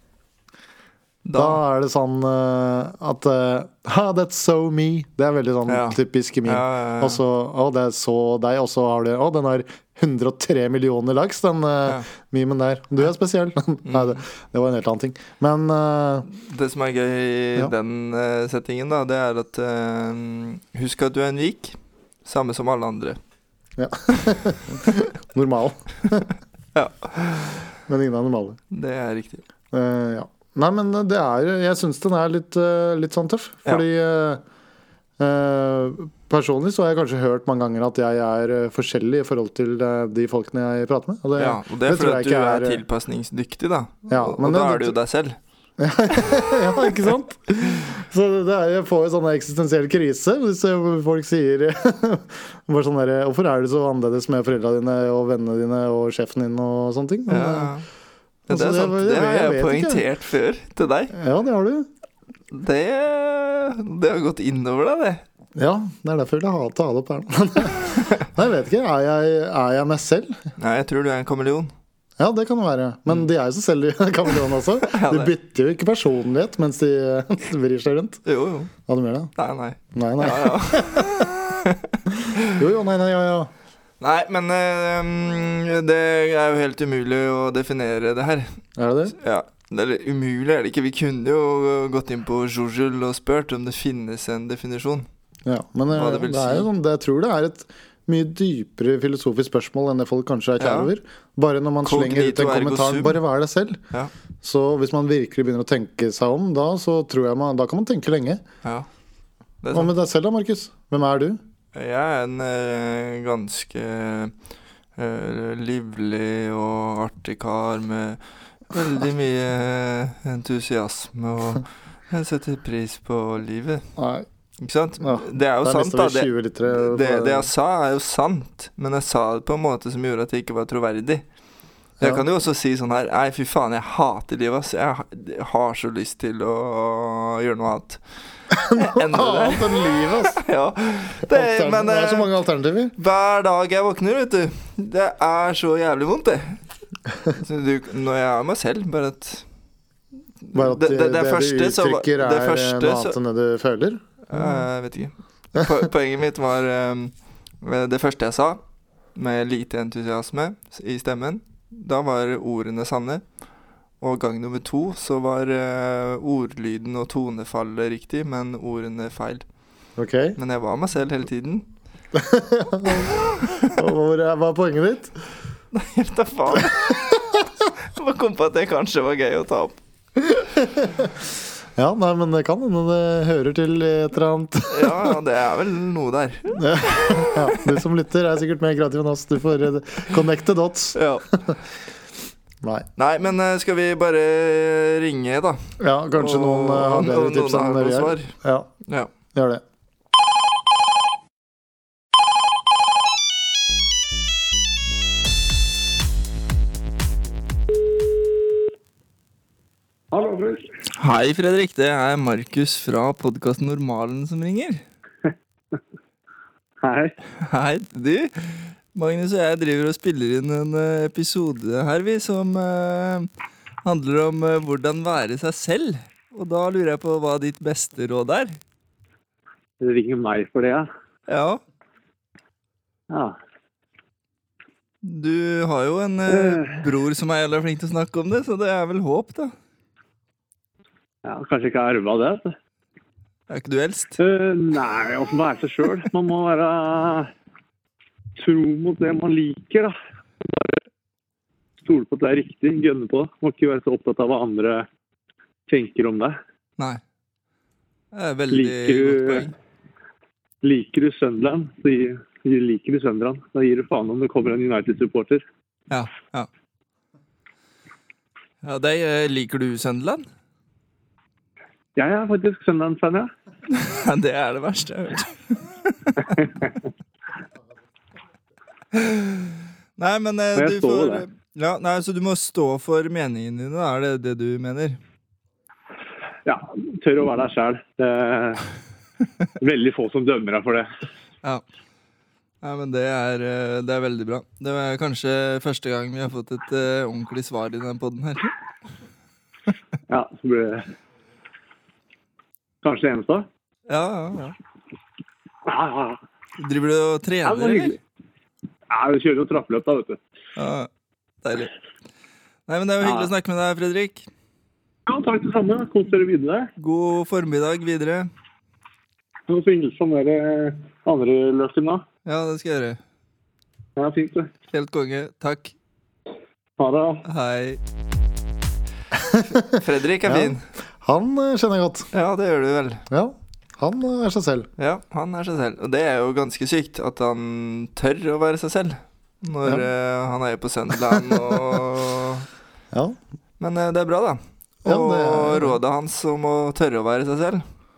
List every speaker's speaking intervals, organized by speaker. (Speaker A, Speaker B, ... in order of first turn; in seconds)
Speaker A: 1.2-1.6, 5.7-7.2, 13.8-14.2, 16.3-23.2, 26.7-27.7, 28.7-29.4, 41.4-45.4, 57.3-57.8, 58.5-61.1, 62.5-65.2, 70.6-71.7, 74.8-75.3, 78.2-78.7, 79.3-82.6, 84.0-88.5, 89.1-95.1, 95.9-96.7, 100.6-100.9, 101.8-103.2, 109.6-109.9, 111.7-114.3, 115.0-123.8, 124.6-131.2, 132.0-138.0, 138.7-142.3, 142.9-146.6, 147.3-149.4, 150.4-153.2, 154.3-158.6, 159.1-163.2, 164.0-169.4, 170.4-171.7, 172.9-173.7, 175.7-177.3, 177.8-179.8, 184.7-187.8, 190.9-191.3, 193.0-198.3, 210.9-214.8, 217.4-223.3, 223.8-228.6, 231.3-231.6, 235.0-239.5, 243.5-244.2, 258.1-259.5, 265.9-266.5, 268.6-270.2, 273.7-276.4, 278.9-285.0, 292.6-298.5, 303.9-304.5, 306.6-308.0, 310.6-310.9, 311.4-311.7, 312.7-314.3, 316.8-318.3, 322.2-323.0, 324.7-325.7, 327.2-327.8, 329.6-330.6, 332.1-333.0, 334.8-342.4, 343.6-347.6
Speaker B: 1.3-16.3, 23.8-26.3, 27.9-28.6, 29.7-34.4, 35.2-42.8, 44.1-45.0, 45.8-57.7, 58.5-60.0, 61.1-61.9, 65.5-70.4, 72.2-78.2, 78.8-79.3, 79.9-81.3, 82.5-83.5, 88.8-89.1, 95.4-103.8, 104.4-108.4, 109.7-111.4, 124.0-124.2, 125.0-127.5, 138.5-140.4, 141.3-142.9, 150.5-154.6, 170.0-170.4, 172.1-175.1, 180.3-181.2, 181.8-185.1, 186.5-191.0, 192.6-192.9, 195.8-198.7, 199.3-199.6, 329.1-332.1, 333.1-334.7, 342.9-343.2, 344.8-345.8
Speaker C: 210.1-210.7, 216.8-217.1, 229.8-230.9, 233.1-233.4, 236.3-236.8, 241.2-242.5, 244.2-247.3, 248.4-250.6, 251.8-254.9, 255.7-256.4, 258.5-259.5, 260.6-265.4, 271.9-273.3, 276.4-276.7, 280.6-281.2, 286.4-288.6, 289.6-290.9, 300.1-300.9, 302.8-303.5, 305.6-306.2, 307.4-308.0, 308.9-310.2, 313.0-313.3, 315.1-316.7, 319.5-322.0, 324.0-324.5, 326.8-327.2